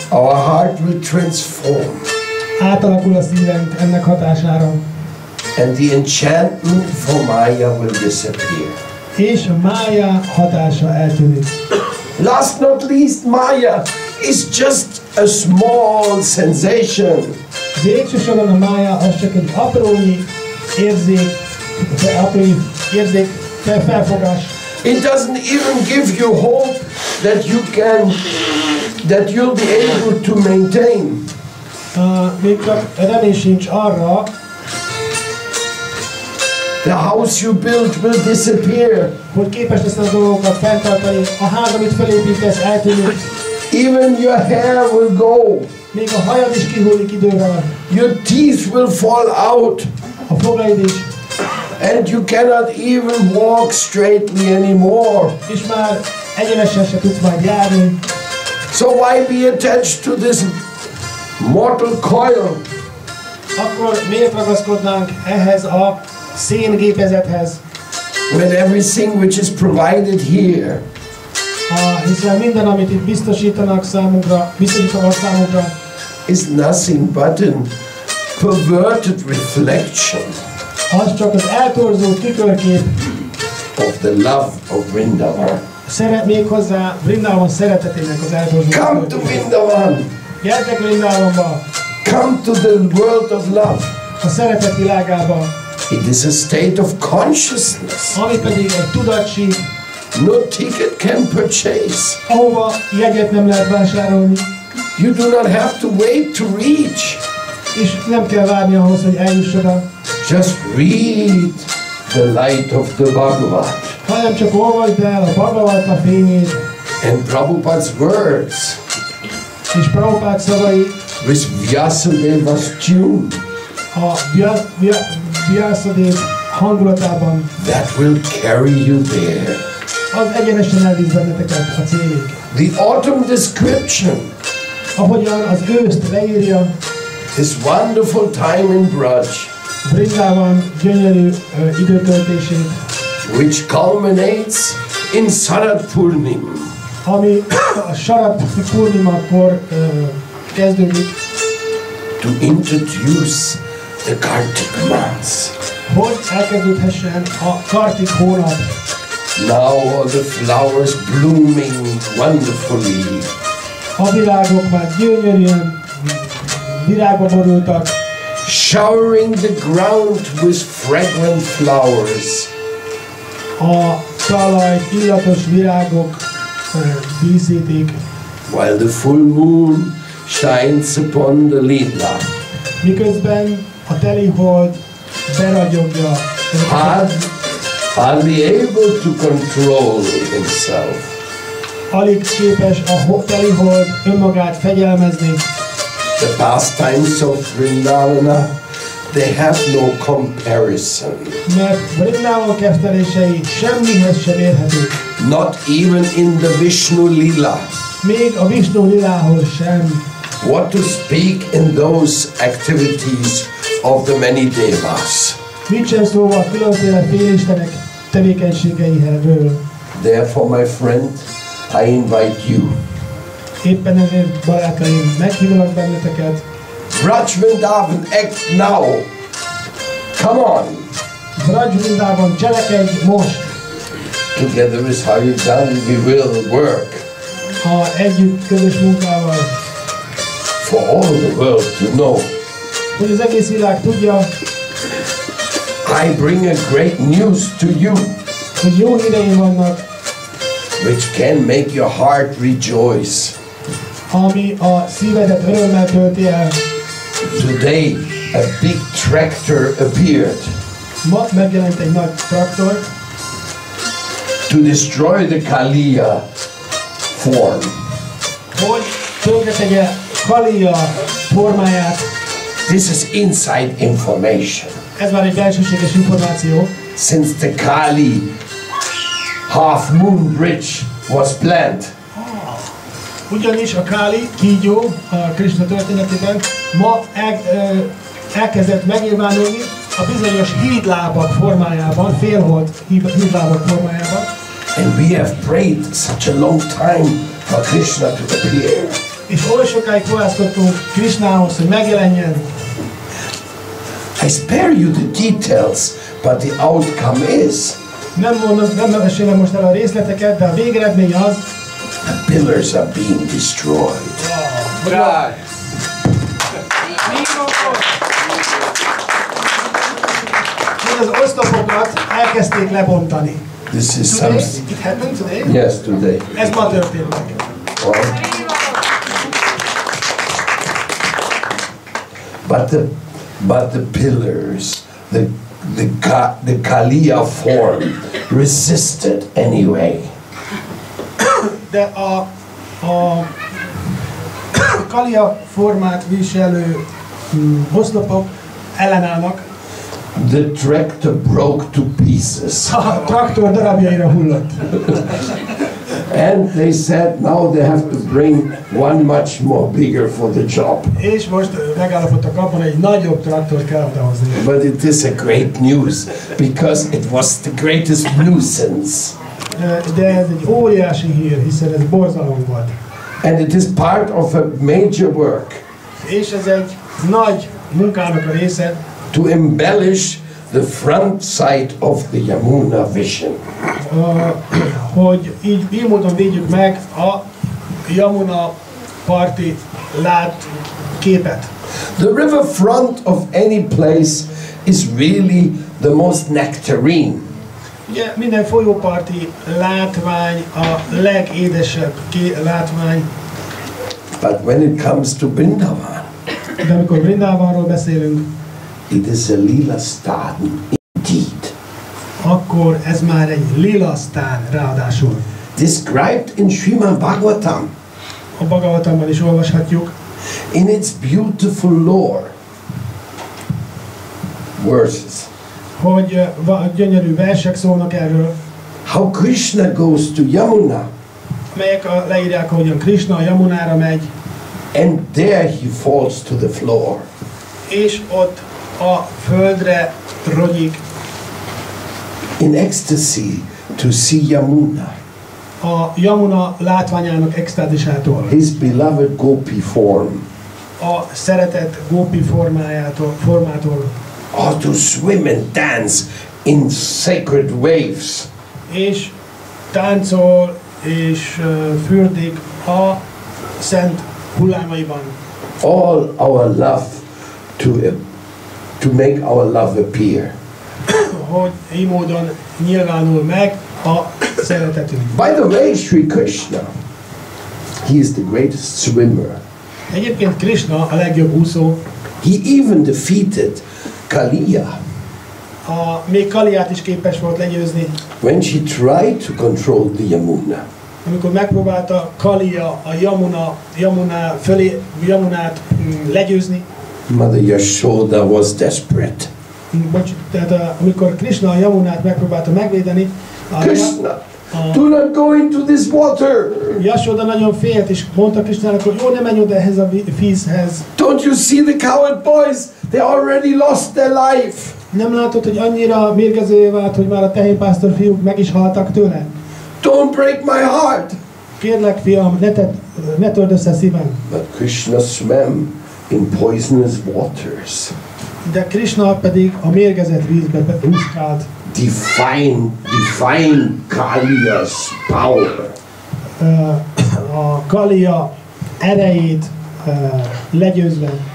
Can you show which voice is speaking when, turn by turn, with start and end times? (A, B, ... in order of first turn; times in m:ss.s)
0:00.1-0:02.1 A
0:02.6-0:04.8 B
0:05.6-0:08.8 A
0:09.2-0:11.5 B
0:12.2-0:17.4 A
0:17.8-0:24.5 B
0:24.8-0:31.3 A
0:31.9-0:34.3 B
0:36.8-0:39.2 A
0:39.3-0:43.3 B
0:43.7-0:45.7 A
0:45.9-0:47.8 B
0:47.9-0:49.9 A
0:50.3-0:51.1 B
0:51.8-0:55.4 A
0:55.5-0:58.0 B
0:58.7-1:00.6 A
1:01.4-1:02.6 A
1:03.6-1:07.6 B
1:08.3-1:10.8 A
1:11.7-1:15.7 B
1:16.3-1:17.7 A
1:18.3-1:20.4 A
1:20.9-1:23.0 B
1:23.8-1:25.6 A
1:25.9-1:29.4 B
1:28.7-1:30.1 A
1:30.4-1:31.6 B
1:32.0-1:33.9 A
1:34.2-1:35.5 B
1:35.9-1:38.2 A
1:38.1-1:39.6 B
1:40.1-1:42.2 A
1:42.3-1:44.5 B
1:45.0-1:47.2 A
1:47.7-1:49.8 B
1:50.2-1:54.0 A
1:54.0-1:56.6 B
1:57.0-1:58.8 A
1:59.7-2:01.0 B
2:01.2-2:03.4 A
2:03.9-2:07.5 B
2:07.6-2:09.6 A
2:10.1-2:12.4 B
2:12.5-2:14.3 A
2:15.0-2:16.7 B
2:17.3-2:19.5 A
2:19.8-2:22.8 B
2:23.2-2:26.7 A
2:27.0-2:31.2 B
2:32.2-2:35.6 A
2:35.9-2:38.7 B
2:39.4-2:43.3 A
2:44.0-2:48.0 B
2:48.4-2:52.5 A
2:53.6-2:58.0 B
2:58.5-3:02.3 A
3:02.8-3:04.8 B
3:05.3-3:07.2 B
3:06.6-3:07.2 A
3:07.9-3:11.2 A
3:11.9-3:15.4 B
3:16.2-3:18.5 A
3:19.1-3:21.4 A
3:21.5-3:25.0 B
3:25.2-3:27.7 A
3:28.0-3:30.0 B
3:30.4-3:35.4 A
3:35.7-3:39.6 B
3:39.9-3:42.8 A
3:43.6-3:46.4 B
3:46.9-3:49.1 A
3:50.2-3:50.9 A
3:51.4-3:53.5 B
3:54.4-3:57.0 A
3:57.6-3:59.5 B
4:00.6-4:02.3 A
4:03.0-4:04.3 B
4:05.8-4:08.2 A
4:08.6-4:09.8 B
4:10.8-4:13.4 A
4:14.1-4:16.6 B
4:17.3-4:20.6 A
4:21.0-4:22.9 B
4:24.5-4:26.3 A
4:27.1-4:27.8 A
4:28.5-4:32.1 B
4:32.6-4:34.8 A
4:35.0-4:36.7 B
4:37.0-4:38.3 A
4:39.5-4:41.9 A
4:42.2-4:42.7 B
4:43.3-4:54.3 B
4:54.8-4:59.0 A
4:59.3-5:02.5 B
5:04.2-5:07.8 A
5:08.2-5:11.4 B
5:12.0-5:14.2 A
5:14.2-5:15.3 B
5:14.9-5:15.3 A
5:17.1-5:17.8 B
5:20.8-5:23.4 B
5:23.7-5:24.6 A
5:24.1-5:25.5 B
5:25.4-5:26.8 A
5:26.3-5:27.5 B
5:27.8-5:28.3 A
5:32.4-5:40.1 A
5:41.2-5:42.3 B
5:42.8-5:43.4 B
5:44.5-5:49.4 B
5:50.1-5:52.8 A
5:52.7-5:55.0 B
5:56.0-6:00.9 A
6:01.0-6:04.4 B
6:04.3-6:09.1 A
6:09.5-6:12.7 B
6:13.2-6:15.6 A
6:16.0-6:18.8 B
6:19.1-6:23.4 A
6:23.8-6:27.2 B
6:27.8-6:28.5 B
6:29.0-6:31.5 B
6:31.9-6:37.3 A
6:37.9-6:43.1 B
6:44.2-6:46.1 A
6:46.6-6:48.2 B
6:48.9-6:51.5 A
6:52.2-6:55.2 B
6:55.6-6:57.7 A
6:58.4-6:59.9 B
7:00.5-7:02.3 A
7:04.6-7:05.3 A
7:05.8-7:08.4 B
7:08.8-7:10.9 A
7:11.5-7:14.1 B
7:14.7-7:17.1 A
7:17.7-7:20.8 B
7:22.4-7:25.0 A
7:25.6-7:28.3 B
7:28.3-7:30.3 A
7:30.8-7:33.9 B
7:34.3-7:38.3 A
7:38.7-7:39.1 B
7:39.7-7:43.0 B
7:43.6-7:45.2 B
7:45.6-7:47.0 A
7:47.6-7:48.0 A
7:48.8-7:50.4 A
7:50.9-7:55.2 B
7:55.1-7:56.7 A
7:57.8-7:59.4 A
7:59.9-8:01.8 B
8:02.2-8:04.8 A
8:05.7-8:07.9 B
8:08.2-8:10.6 A
8:11.0-8:16.7 B
8:17.1-8:19.3 A
8:19.7-8:24.0 B
8:23.6-8:26.8 A
8:24.5-8:24.8 B
8:26.8-8:30.9 B
8:31.0-8:34.8 A
8:34.9-8:39.3 B
8:39.8-8:41.2 A
8:41.6-8:44.2 B
8:44.3-8:48.0 A
8:48.4-8:51.5 B
8:51.7-8:55.8 A
8:56.4-9:01.2 B